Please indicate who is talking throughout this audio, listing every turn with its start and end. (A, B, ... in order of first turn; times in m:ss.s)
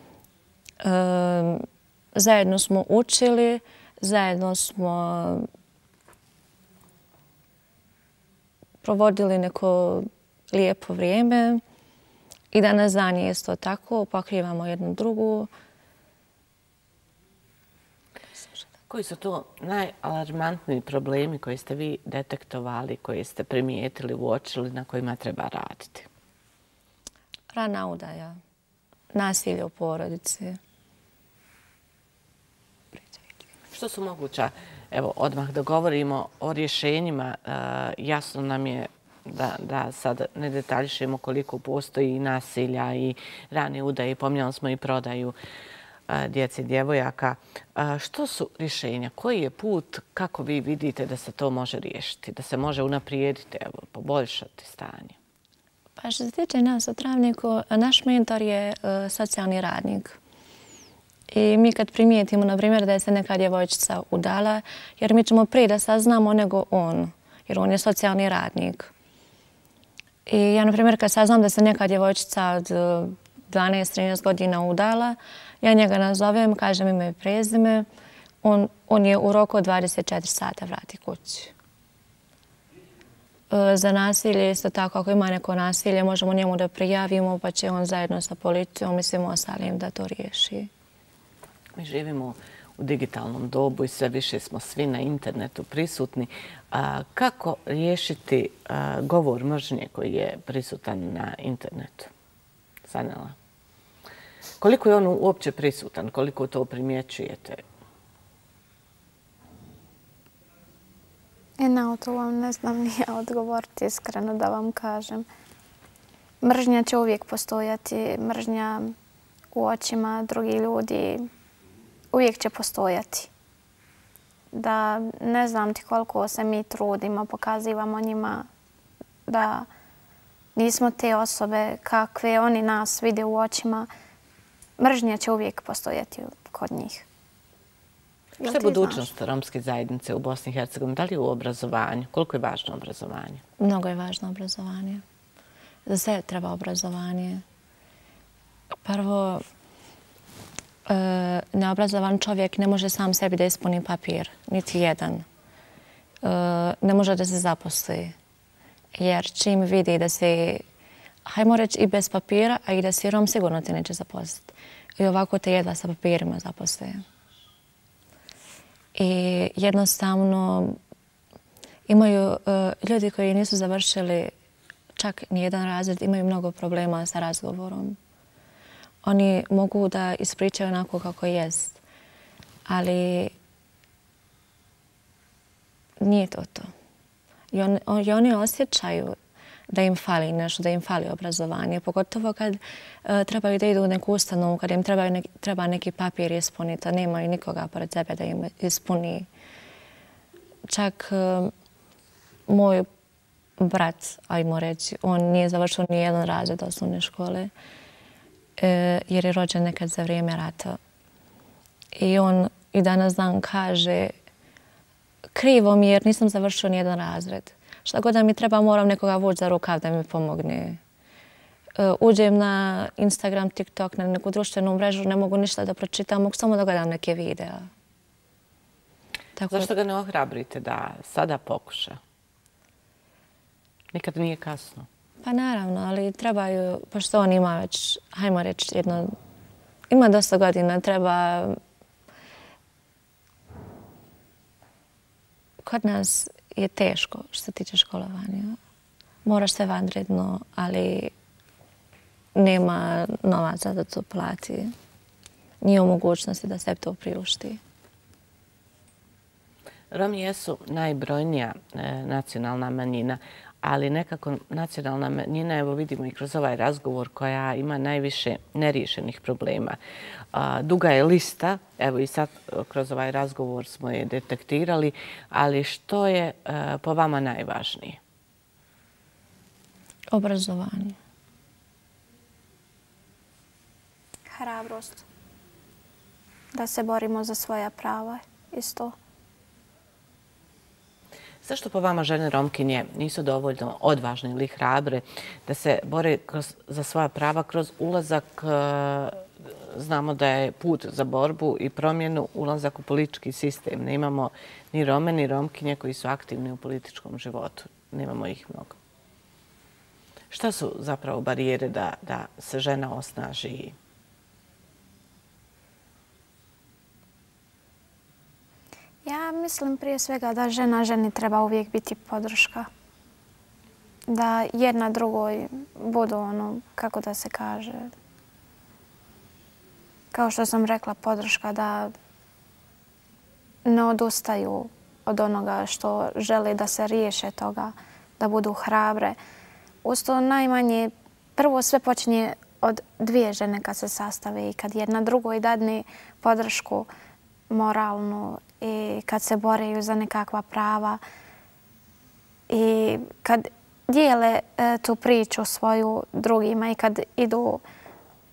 0:00.8-0:05.5 A
0:08.8-0:11.6 A
0:12.5-0:15.5 A
0:18.9-0:26.1 B
0:27.5-0:28.4 A
0:29.1-0:30.6 A
0:33.7-0:45.3 B
0:46.1-0:55.2 B
0:56.0-1:00.2 A
1:01.3-1:08.9 A
1:10.3-1:17.9 A
1:18.4-1:21.5 A
1:23.5-1:30.7 A
1:31.8-1:42.1 B
1:42.8-1:43.4 B
1:44.6-1:47.6 B
1:51.6-1:55.3 C
1:56.4-1:58.9 C
1:59.5-2:01.3 C
2:02.1-2:03.3 C
2:04.5-2:08.5 C
2:09.3-2:09.7 C
2:10.5-2:13.9 C
2:14.8-2:17.0 C
2:18.4-2:19.0 C
2:18.4-2:23.4 B
2:23.6-2:25.0 A
2:25.8-2:27.4 A
2:28.8-2:29.4 A
2:30.8-2:35.2 A
2:36.2-2:38.2 A
2:38.9-2:40.6 A
2:41.2-2:47.0 A
2:48.9-2:50.8 A
2:51.9-2:54.3 A
2:55.0-2:58.0 A
2:59.0-3:01.8 A
3:02.7-3:03.3 A
3:06.0-3:06.7 A
3:07.5-3:09.2 A
3:09.7-3:19.3 A
3:20.7-3:21.5 A
3:22.5-3:22.9 A
3:23.6-3:27.5 A
3:28.6-3:30.8 A
3:31.9-3:34.1 A
3:35.3-3:40.8 A
3:41.8-3:47.7 A
3:49.4-3:49.7 A
3:49.5-3:52.0 B
3:53.9-3:54.9 B
3:55.2-3:59.1 A
3:59.9-4:01.6 A
4:05.6-4:08.6 A
4:09.2-4:11.1 A
4:12.3-4:14.7 A
4:15.6-4:17.6 A
4:19.9-4:29.8 B
4:30.3-4:38.0 B
4:40.1-4:41.0 A
4:44.3-4:45.0 C
4:46.5-4:48.9 C
4:51.4-5:08.8 B
5:10.3-5:13.8 B
5:19.0-5:22.7 C
5:24.1-5:27.9 C
5:30.1-5:31.9 C
5:33.6-5:39.2 C
5:39.8-5:46.9 C
5:47.5-5:51.0 C
5:52.5-5:57.6 C